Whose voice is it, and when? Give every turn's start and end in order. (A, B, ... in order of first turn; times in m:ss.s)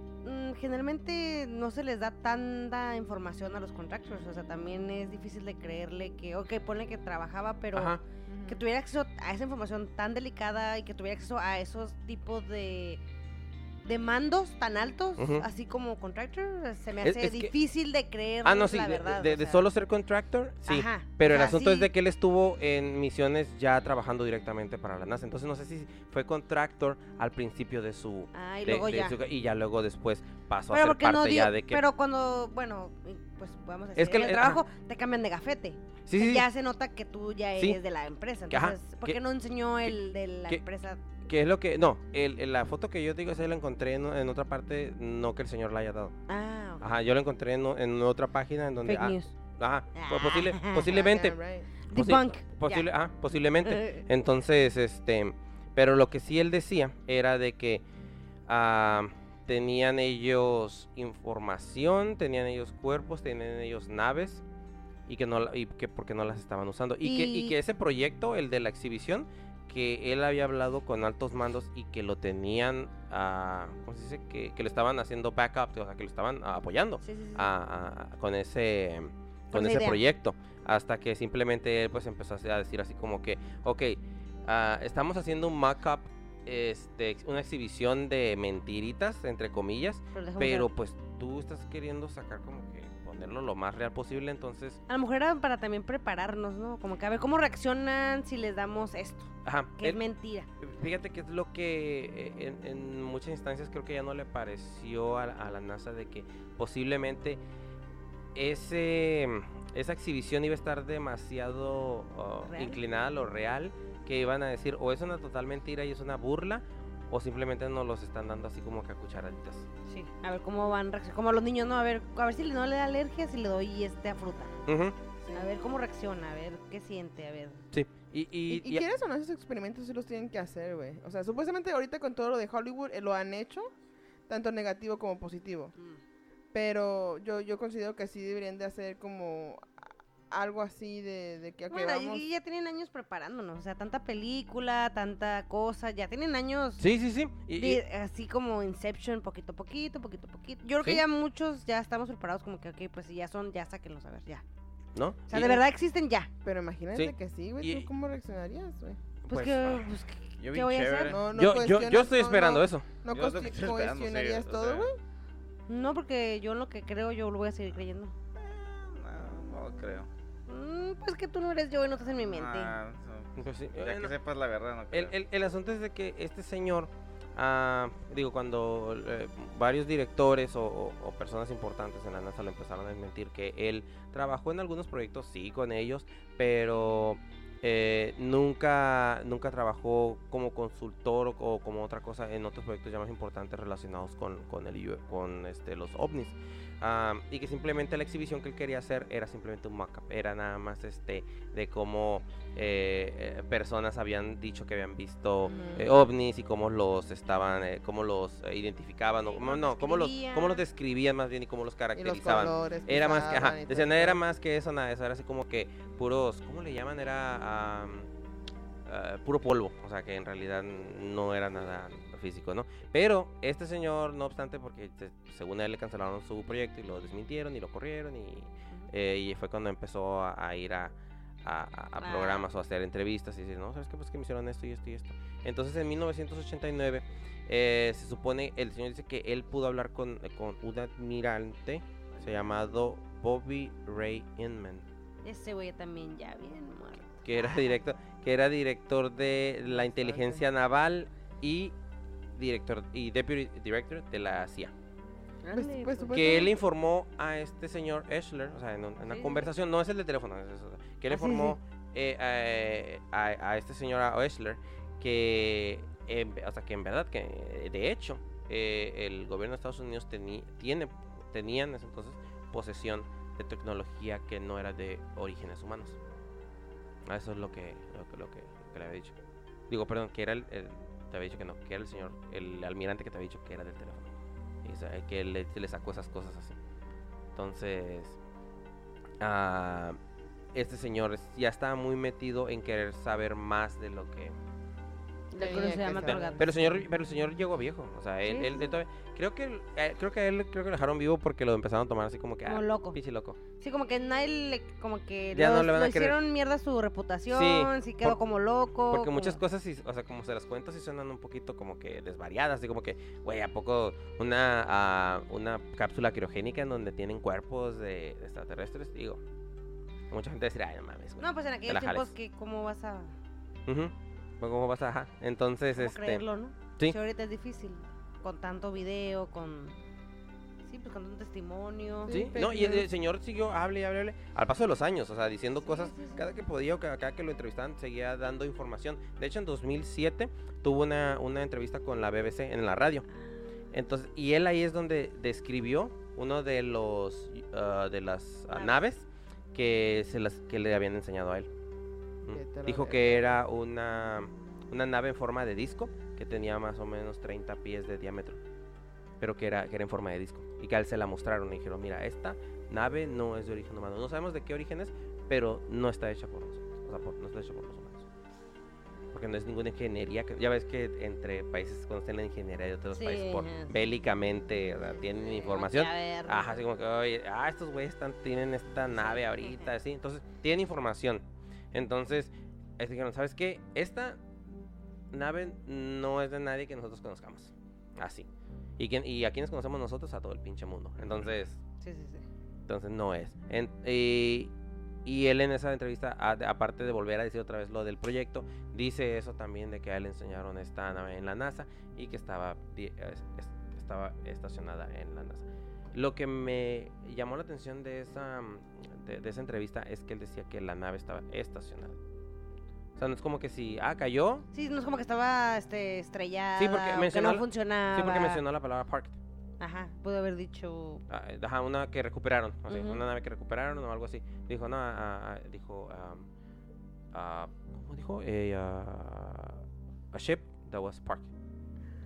0:00.2-0:13.0 A
0:07.7-0:08.0 B
0:08.3-0:08.6 C
0:13.8-0:19.6 A
0:15.2-0:15.4 B
0:17.0-0:17.5 B
0:18.4-0:31.8 B
0:20.7-0:21.9 A
0:28.3-0:29.2 A
0:30.7-0:41.0 A
0:34.0-0:34.6 B
0:36.0-0:36.4 B
0:38.5-0:39.2 B
0:41.2-0:46.1 B
0:46.3-0:46.9 A
0:46.8-0:51.4 B
0:48.8-0:49.3 A
0:49.9-0:51.1 A
0:50.8-0:51.7 C
0:51.9-0:52.9 A
0:51.9-0:57.8 B
0:53.6-0:54.0 A
0:58.5-1:04.4 B
1:05.1-1:34.8 B
1:07.0-1:07.6 A
1:17.0-1:17.5 A
1:19.5-1:20.0 A
1:30.1-1:30.7 A
1:34.9-1:40.5 A
1:39.4-1:40.0 B
1:40.6-1:47.4 B
1:48.3-1:59.7 B
1:52.5-1:52.8 A
1:59.8-2:04.5 A
2:04.7-2:04.9 B
2:05.2-2:05.5 C
2:05.3-2:07.6 A
2:07.7-2:08.8 B
2:08.5-2:13.7 C
2:14.3-2:15.7 C
2:16.5-2:19.7 C
2:20.3-2:22.2 C
2:21.7-2:26.8 A
2:26.8-2:27.8 B
2:27.5-2:34.4 A
2:34.9-2:35.6 B
2:35.3-2:36.3 A
2:36.4-2:39.0 C
2:36.9-2:37.9 B
2:39.2-2:39.9 B
2:39.3-2:41.2 A
2:40.4-2:41.2 D
2:41.1-2:45.0 C
2:41.3-2:42.9 B
2:43.1-2:44.9 D
2:45.7-2:48.1 A
2:48.3-2:50.1 D
2:50.5-2:52.8 A
2:52.2-2:55.1 D
2:53.4-2:54.1 B
2:54.9-3:38.1 B
3:25.4-3:25.9 C
3:29.3-3:30.6 A
3:32.0-3:34.2 C
3:38.8-4:04.8 B
3:52.0-3:52.4 A
4:05.2-4:07.7 A
4:07.2-4:11.7 B
4:09.7-4:10.4 C
4:12.3-4:14.7 B
4:15.4-4:16.4 A
4:15.5-4:16.5 C
4:16.1-4:36.0 B
4:19.1-4:19.5 A
4:21.1-4:21.6 A
4:37.0-4:39.2 B
4:39.7-4:46.6 B
4:47.3-4:48.2 B
4:49.2-4:50.0 B
4:50.5-4:54.4 B
4:55.3-4:56.8 A
4:55.4-4:56.5 C
4:56.0-5:03.4 B
4:58.2-4:58.7 A
5:02.4-5:03.0 A
5:03.6-5:09.4 A
5:05.3-5:06.2 B
5:07.3-5:08.2 B
5:08.9-5:19.2 B
5:20.1-5:22.1 B
5:21.2-5:23.1 A
5:23.6-5:26.2 B
5:25.8-5:29.8 A
5:30.6-5:32.3 A
5:32.1-5:32.8 C
5:32.1-5:43.0 B
5:35.6-5:36.3 A
5:43.7-5:51.5 B
5:48.5-5:48.8 A
5:52.2-5:58.4 B
5:52.3-5:53.4 C
5:59.2-6:08.1 B
6:09.1-6:24.2 B
6:12.9-6:13.7 A
6:15.1-6:16.6 A
6:18.9-6:19.7 A
6:25.1-6:31.6 B
6:31.0-6:31.3 D
6:31.8-6:32.3 A
6:32.7-6:34.5 B
6:35.0-6:52.0 B
6:53.0-6:54.4 B
6:54.5-6:58.4 A
6:56.6-6:59.2 B
6:59.6-7:01.0 A
7:01.1-7:06.3 B
7:02.7-7:03.0 A
7:07.1-7:11.3 B